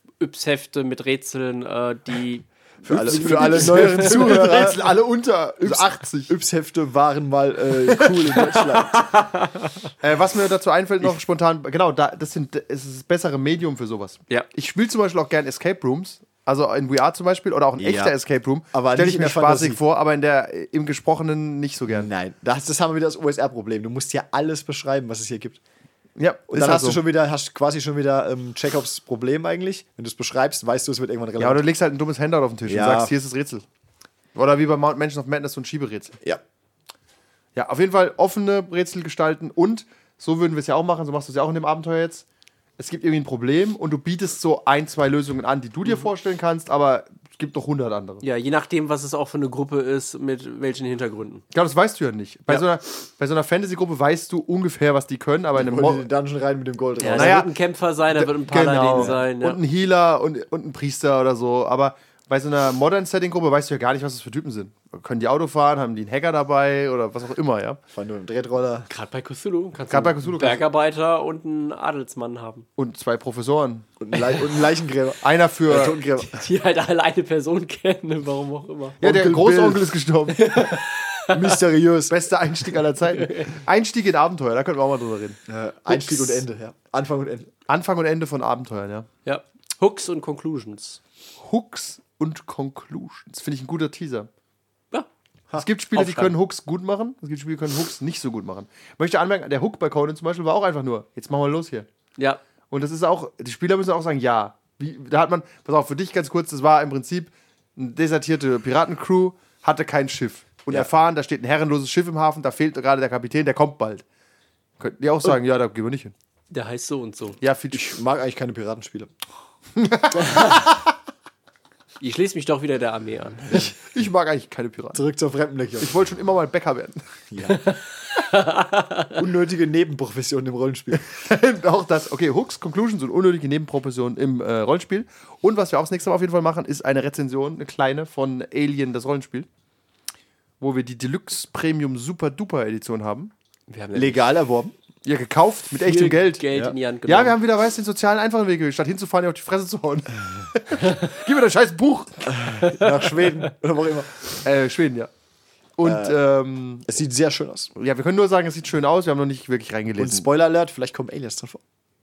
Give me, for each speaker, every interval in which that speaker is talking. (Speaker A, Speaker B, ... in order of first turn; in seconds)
Speaker A: 0.2-4.4, 8.4-9.9, 48.2-51.4, 57.0-59.6, 68.9-72.7, 76.2-79.0, 80.3-81.6, 83.1-83.5, 89.2-91.0, 95.9-96.3, 116.5-117.4, 122.0-123.7, 127.5-129.2, 143.7-144.3, 145.7-147.4, 152.6-152.9
Speaker B: 2.8-4.8, 5.6-9.0, 17.8-18.1, 18.7-19.8, 21.9-25.6, 26.5-31.6, 32.7-33.1, 55.5-57.5, 67.9-68.9, 74.0-76.3, 79.0-79.9, 81.3-82.1, 85.5-87.5, 117.7-119.1, 124.9-125.9, 127.3-127.6, 129.2-131.0, 143.9-144.7, 152.3-154.1, 155.8-156.2, 156.9-157.7, 160.0-161.6
Speaker C: 3.1-6.3, 10.0-22.1, 26.2-27.0, 31.4-33.6, 34.4-36.2, 37.5-42.2, 42.8-48.2, 51.5-56.1, 57.1-57.5, 58.1-67.8, 69.9-70.7, 72.8-73.9, 75.2-76.0, 79.0-80.6, 82.1-85.4, 87.7-89.1, 91.4-94.3, 95.6-101.9, 102.7-114.0, 114.8-116.1, 117.4-117.9, 119.8-120.8, 123.5-125.0, 125.8-127.0, 130.9-139.5, 140.6-143.3, 145.1-146.4, 147.1-152.4, 154.3-155.1, 155.8-156.9, 157.8-160.3